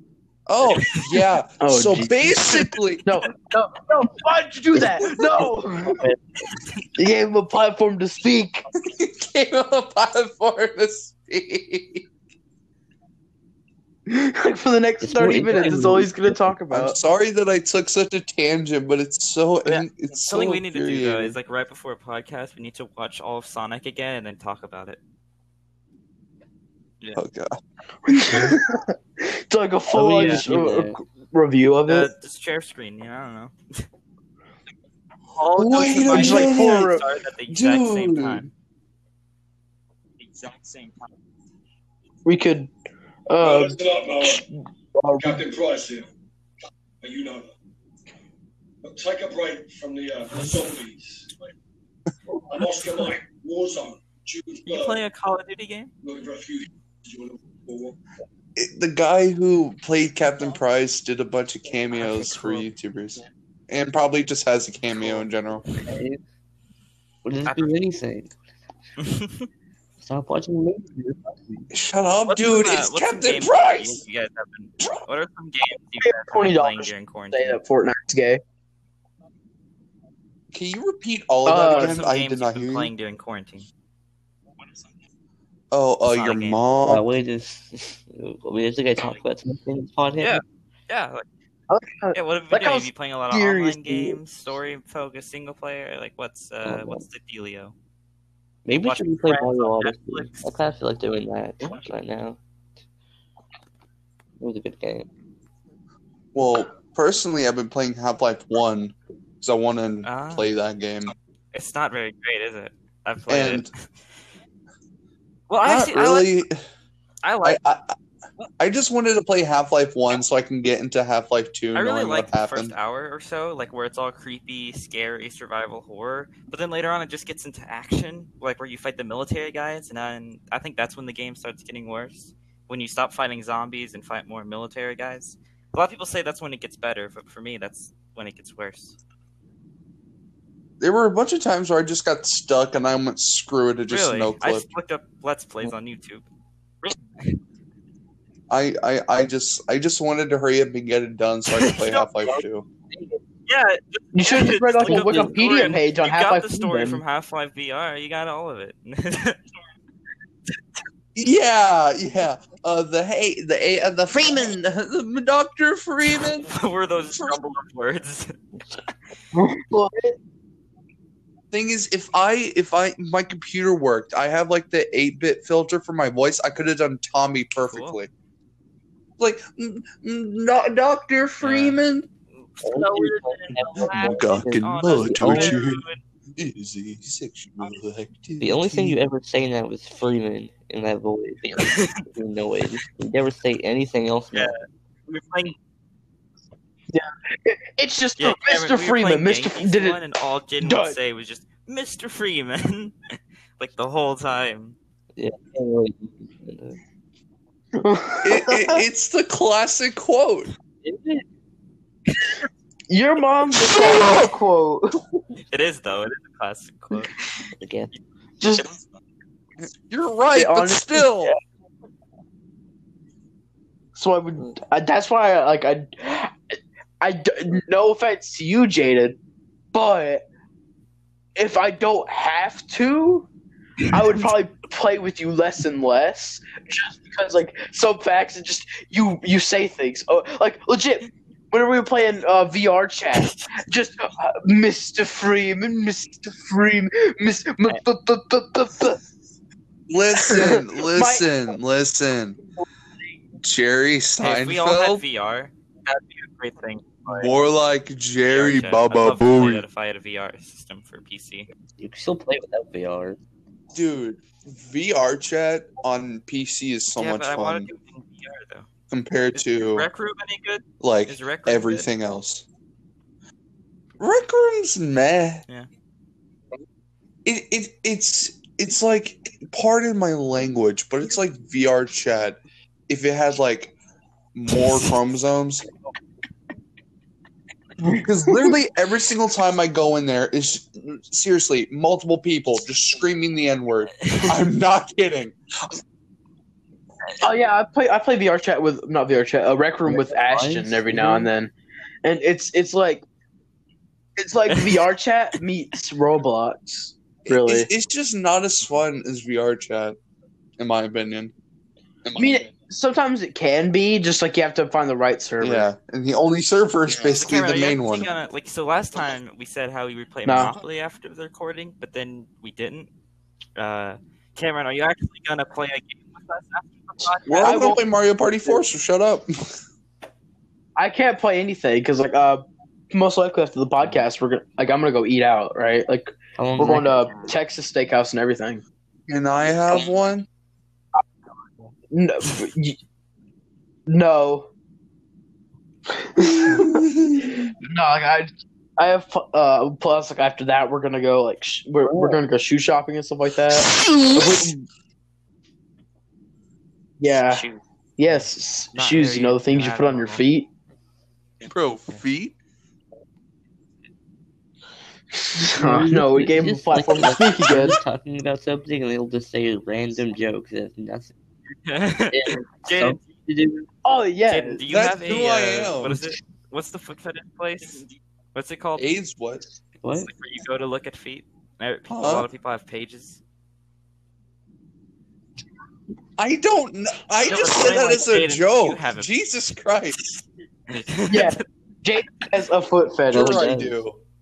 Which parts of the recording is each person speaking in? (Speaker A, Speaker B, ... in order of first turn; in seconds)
Speaker A: 0.5-3.1, 8.7-12.1, 16.7-21.3, 27.1-28.6, 35.5-36.9, 37.5-38.5, 58.5-65.6, 71.7-74.0, 80.5-82.9, 85.7-87.0, 106.3-111.1, 113.3-113.7, 115.6-116.6, 117.4-118.0, 118.6-122.8, 140.8-144.7, 148.5-152.7, 161.2-166.5, 167.1-167.4, 171.5-178.1, 179.2-182.1, 183.8-185.8, 186.4-189.0, 208.2-210.5, 213.6-214.3, 219.6-221.3, 249.9-252.4, 253.4-255.0, 257.1-259.6, 263.7-267.7, 268.9-269.9, 270.8-272.4, 274.0-275.4, 277.2-283.7, 284.3-285.7, 287.8-295.8, 307.3-310.0, 310.6-311.3, 312.0-312.3, 315.4-318.1, 327.3-329.6, 339.1-340.2, 346.2-347.3, 353.5-354.5, 361.4-362.4, 374.7-376.0, 378.8-379.4, 381.9-382.3, 386.2-390.2, 393.1-394.0
Speaker B: 0.7-1.2, 6.6-6.8, 19.6-25.0, 30.1-30.4, 31.9-33.9, 35.3-38.5, 54.7-55.9, 61.9-62.6, 67.4-67.7, 69.0-69.5, 72.3-77.6, 81.7-83.7, 86.0-86.6, 90.2-91.2, 92.1-97.7, 98.8-100.6, 110.0-110.5, 111.5-113.8, 115.5-116.3, 117.2-117.6, 121.7-138.9, 143.9-146.2, 146.8-147.4, 151.6-152.1, 153.5-159.4, 166.4-168.4, 177.7-178.0, 181.4-181.8, 182.3-186.0, 191.6-192.1, 194.3-195.5, 198.2-204.8, 215.5-217.1, 218.6-218.8, 243.1-243.5, 254.2-257.3, 258.3-261.5, 266.9-268.7, 269.3-271.9, 304.5-304.9, 317.1-322.9, 323.6-327.8, 342.2-342.5, 357.3-360.2, 371.6-373.1, 374.3-378.9, 380.0-383.2, 387.2-389.1, 390.7-391.4
Speaker C: 1.6-6.0, 7.0-8.7, 14.1-17.0, 28.1-32.1, 35.9-37.0, 42.2-42.7, 43.3-45.4, 76.0-78.4, 81.5-82.0, 91.7-94.2, 154.1-157.0, 169.3-170.2, 196.9-200.0, 200.6-200.9, 207.7-208.8, 212.9-215.2, 218.4-218.7, 220.3-221.4, 224.0-226.3, 227.0-229.2, 229.7-230.2, 231.3-233.3, 233.9-249.0, 250.2-251.3, 288.3-288.5, 297.2-301.5, 302.0-303.0, 304.2-307.7, 312.1-315.7, 320.2-320.5, 327.4-327.9, 330.8-338.6, 341.9-342.8, 343.9-344.5, 346.0-354.6, 357.0-357.4, 358.0-360.5, 365.3-367.8, 373.8-374.6, 391.1-393.6
Speaker D: 4.7-6.2, 15.0-16.4, 29.9-31.0, 65.8-66.2, 67.2-68.3, 70.0-71.7, 86.8-90.4, 96.6-97.0, 98.7-102.4, 104.4-105.1, 154.8-155.5, 182.6-185.8, 188.4-194.5, 205.2-206.8, 210.8-211.2, 217.6-217.9, 261.8-263.2, 299.9-301.3, 336.4-337.1, 365.6-371.1, 372.1-373.7, 379.8-380.1, 393.1-393.8
Speaker E: 43.4-44.4, 45.2-46.1, 47.0-47.5, 48.8-51.5, 52.4-55.0, 56.0-57.9